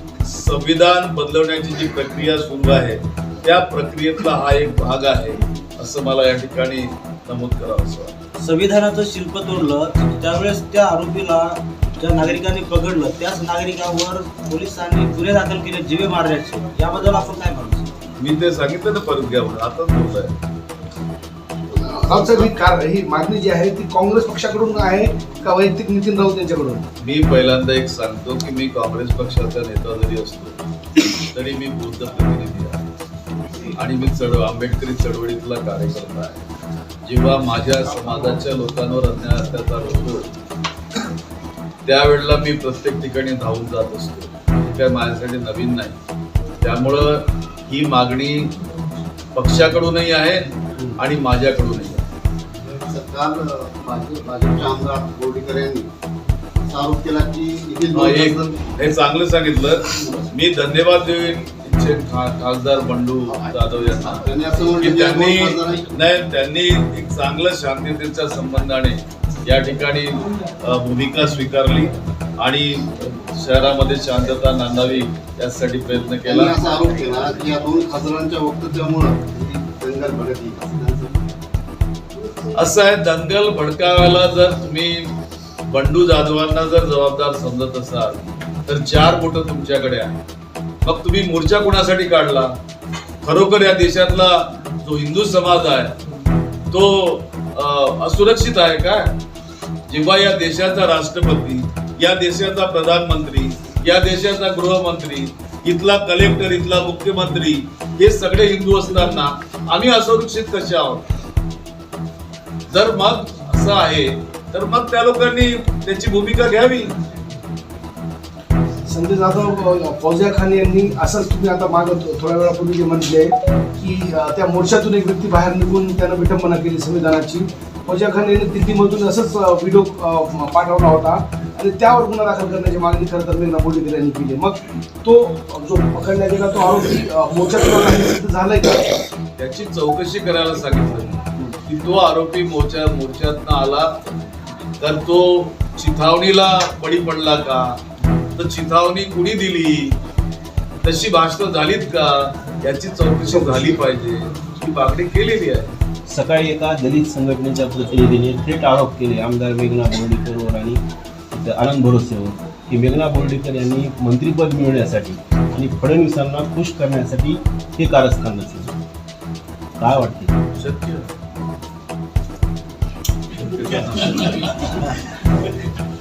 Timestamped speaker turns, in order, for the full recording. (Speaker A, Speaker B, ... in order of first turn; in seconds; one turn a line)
Speaker A: 0.2-8.1
Speaker B: 8.4-17.9
Speaker A: 18.2-20.3
Speaker C: 21.7-26.8
Speaker D: 22.1-22.5
Speaker A: 27.0-30.6
Speaker A: 31.2-32.8
Speaker A: 33.7-36.4
Speaker A: 37.0-40.2
Speaker A: 41.8-46.0
Speaker A: 46.6-48.5
Speaker A: 49.3-52.0
Speaker D: 52.8-55.9
Speaker D: 56.6-58.6
Speaker A: 57.9-76.6
Speaker D: 63.3-65.9
Speaker D: 76.2-81.2
Speaker A: 82.5-85.1
Speaker A: 85.7-90.2
Speaker A: 90.8-92.5
Speaker A: 93.2-96.0
Speaker A: 96.7-99.1
Speaker A: 99.9-111.0
Speaker A: 112.7-116.9
Speaker C: 118.8-138.9
Speaker A: 139.4-144.1
Speaker A: 144.8-147.8
Speaker A: 148.3-149.9
Speaker A: 150.8-155.7
Speaker E: 156.1-168.7
Speaker E: 169.8-170.3
Speaker A: 170.5-171.1
Speaker A: 173.3-174.8